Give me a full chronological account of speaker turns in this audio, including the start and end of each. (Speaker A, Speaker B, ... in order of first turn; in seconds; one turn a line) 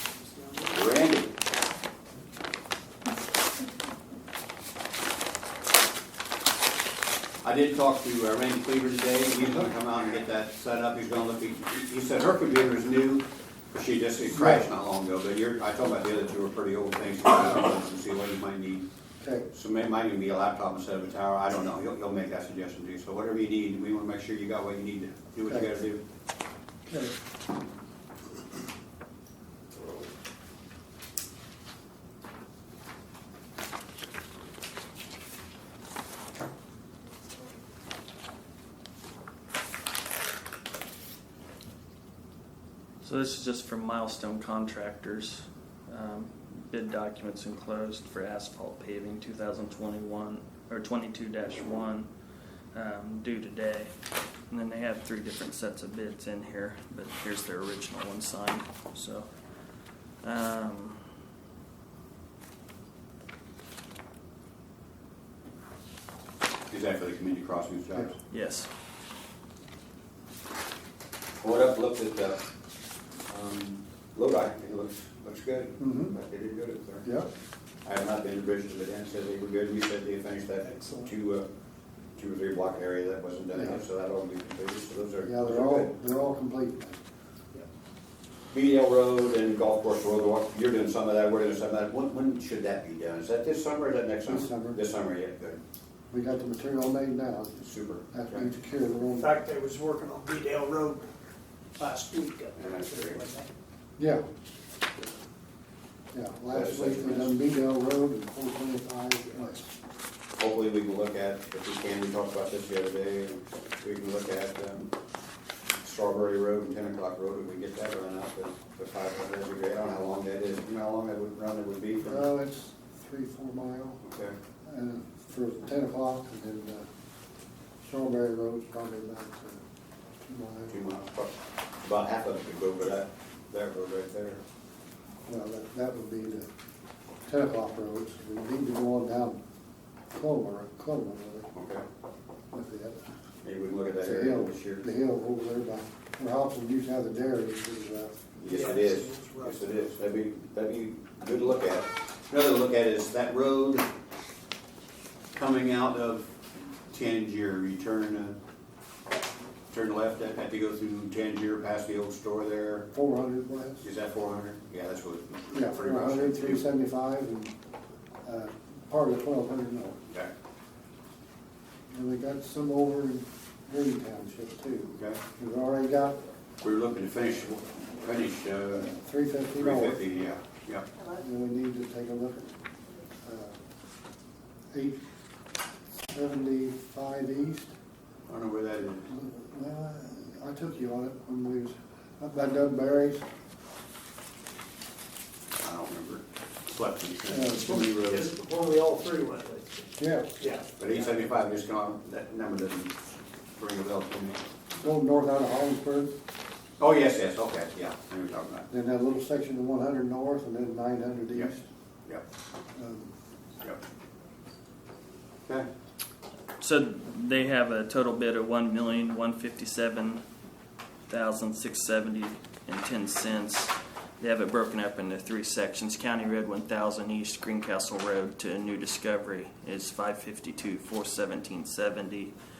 Speaker A: 0.3-0.6
Speaker B: 0.6-1.3
Speaker B: 7.4-18.9
Speaker C: 14.3-14.7
Speaker C: 19.2-19.5
Speaker B: 19.5-26.0
Speaker C: 25.5-25.8
Speaker C: 26.9-27.1
Speaker D: 43.0-52.1
Speaker D: 52.7-53.9
Speaker D: 54.5-59.3
Speaker D: 60.2-61.1
Speaker B: 66.7-68.2
Speaker D: 68.3-68.7
Speaker B: 71.4-72.4
Speaker B: 73.3-77.1
Speaker C: 75.8-76.2
Speaker B: 77.8-81.5
Speaker A: 80.7-81.1
Speaker B: 82.2-86.0
Speaker C: 83.5-83.8
Speaker C: 85.2-87.0
Speaker B: 88.5-95.6
Speaker C: 94.2-94.8
Speaker C: 96.1-97.6
Speaker B: 97.6-98.5
Speaker C: 98.1-99.3
Speaker A: 99.2-101.1
Speaker A: 101.8-103.5
Speaker B: 102.6-103.2
Speaker C: 104.0-104.2
Speaker C: 106.1-109.7
Speaker B: 106.5-107.4
Speaker B: 110.4-114.9
Speaker B: 115.8-122.3
Speaker C: 122.0-124.0
Speaker B: 124.0-124.3
Speaker C: 124.7-126.9
Speaker C: 127.8-129.6
Speaker C: 130.3-130.8
Speaker B: 130.7-134.4
Speaker C: 135.3-136.5
Speaker C: 137.3-139.4
Speaker C: 140.1-141.5
Speaker B: 141.5-141.8
Speaker C: 142.5-143.0
Speaker B: 143.4-144.9
Speaker C: 144.0-148.3
Speaker B: 148.4-153.9
Speaker A: 148.5-149.8
Speaker B: 155.3-158.3
Speaker B: 159.7-162.9
Speaker C: 162.9-163.9
Speaker B: 163.8-166.7
Speaker C: 165.5-167.5
Speaker C: 168.2-170.0
Speaker C: 171.9-176.2
Speaker B: 174.9-175.2
Speaker B: 176.6-178.9
Speaker C: 178.8-180.0
Speaker B: 179.6-180.9
Speaker C: 181.1-182.5
Speaker C: 183.2-183.6
Speaker C: 184.7-185.0
Speaker C: 186.1-187.7
Speaker B: 188.3-189.1
Speaker C: 189.1-193.2
Speaker B: 195.6-198.3
Speaker C: 197.3-197.7
Speaker A: 197.6-199.9
Speaker C: 200.0-200.3
Speaker A: 200.4-200.7
Speaker B: 200.8-204.4
Speaker C: 204.8-206.2
Speaker B: 206.8-208.7
Speaker C: 208.7-211.7
Speaker C: 212.8-213.1
Speaker D: 216.6-220.2
Speaker D: 221.1-232.3